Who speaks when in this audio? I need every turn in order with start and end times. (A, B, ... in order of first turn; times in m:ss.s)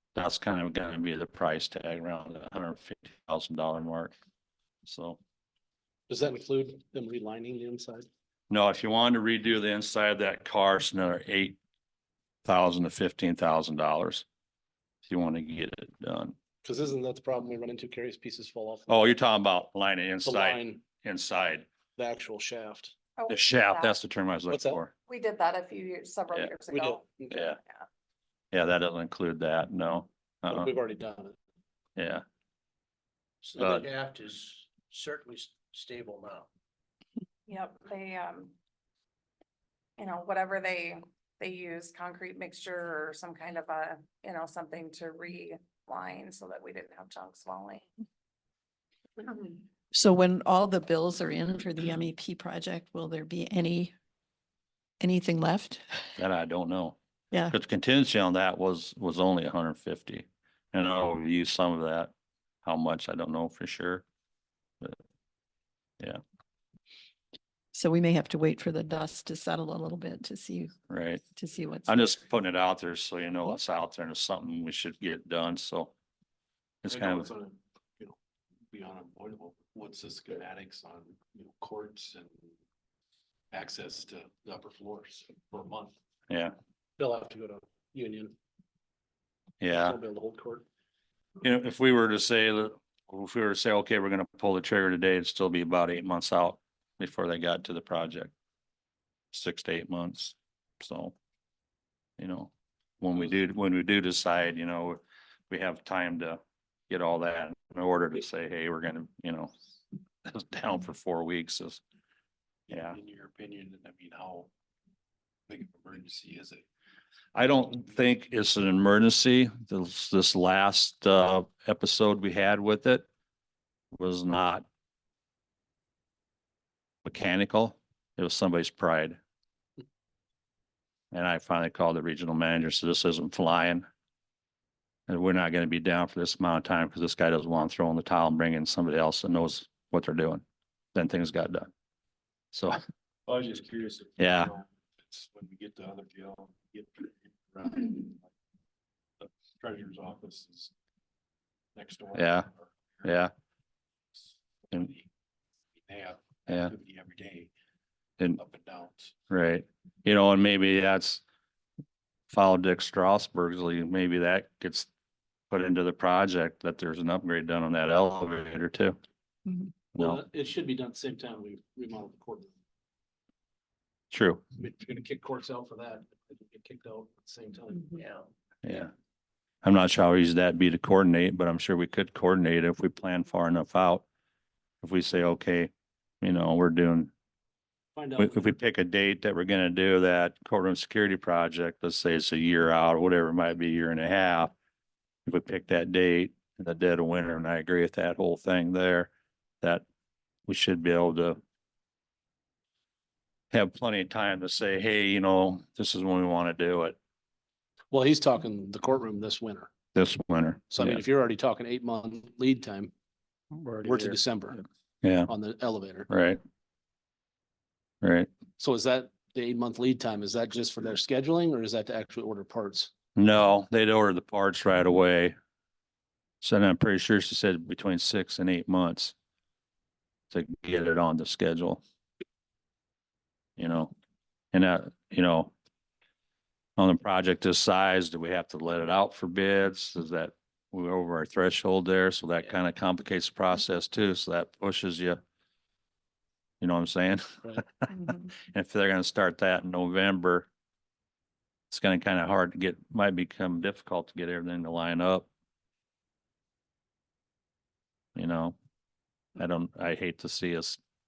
0:00.2-0:04.1 A
0:04.9-0:05.2 A
0:06.1-0:08.1 B
0:08.5-0:11.6 A
0:12.4-0:14.2 A
0:15.1-0:16.4 A
0:16.6-0:19.2 B
0:18.9-0:21.7 A
0:20.2-0:20.8 B
0:22.0-0:22.9 B
0:23.2-0:24.0 C
0:23.3-0:24.9 A
0:24.5-0:24.8 B
0:25.1-0:27.8 C
0:26.7-0:27.5 B
0:27.3-0:27.6 A
0:28.5-0:30.7 A
0:30.5-0:31.4 B
0:32.0-0:32.2 A
0:33.4-0:36.5 D
0:33.6-0:33.8 A
0:37.5-0:38.5 C
0:40.0-0:47.9 C
0:49.2-0:49.6 C
0:49.9-0:53.9 E
0:55.0-0:56.1 E
0:56.2-0:57.0 A
0:57.5-1:02.1 A
1:02.6-1:04.0 A
1:07.7-1:10.7 E
1:10.9-1:11.2 A
1:11.4-1:12.2 E
1:11.9-1:15.9 A
1:16.8-1:17.3 A
1:16.9-1:18.2 B
1:18.7-1:22.5 B
1:23.5-1:26.0 B
1:27.0-1:28.3 B
1:29.6-1:30.0 A
1:29.8-1:30.6 B
1:31.4-1:38.3 A
1:39.3-1:41.2 A
1:42.2-1:49.5 A
1:50.2-1:51.8 A
1:52.7-1:53.0 A
1:52.9-1:54.5 B
1:55.5-1:56.6 B
1:57.4-2:03.1 A
2:03.9-2:04.7 A
2:07.0-2:09.2 A
2:11.1-2:13.8 A
2:15.1-2:20.4 A
2:21.0-2:21.7 A
2:22.5-2:22.8 A
2:23.3-2:24.2 B
2:24.2-2:24.5 A
2:25.1-2:28.2 B
2:29.6-2:30.7 B
2:31.8-2:33.0 B
2:32.2-2:32.5 A
2:33.0-2:33.3 A
2:34.7-2:35.1 B
2:35.8-2:37.5 B
2:36.5-2:36.7 A
2:38.4-2:39.1 B
2:39.3-2:41.2 A
2:42.3-2:44.9 A
2:45.5-2:49.0 A
2:50.0-2:52.5 B
2:54.1-2:54.4 A
2:54.6-2:58.0 B
2:58.0-2:58.3 D
2:58.6-2:58.9 A
2:59.6-3:04.0 A
3:04.8-3:07.1 A
3:08.0-3:08.5 B
3:08.2-3:14.5 A
3:15.3-3:19.1 A
3:20.5-3:21.4 A
3:23.5-3:27.0 A
3:27.9-3:29.7 B
3:30.0-3:31.0 A
3:30.7-3:32.9 B
3:33.8-3:34.6 B
3:35.0-3:35.3 A
3:35.3-3:36.1 B
3:36.1-3:36.4 A
3:38.0-3:38.3 A
3:38.6-3:42.9 B
3:43.2-3:45.3 A
3:46.4-3:49.2 A
3:50.3-3:51.8 A
3:53.6-3:53.9 A
3:54.5-3:55.5 A
3:56.8-4:05.2 A
4:06.6-4:10.5 A
4:11.7-4:15.3 A
4:18.2-4:18.6 A
4:19.4-4:20.8 A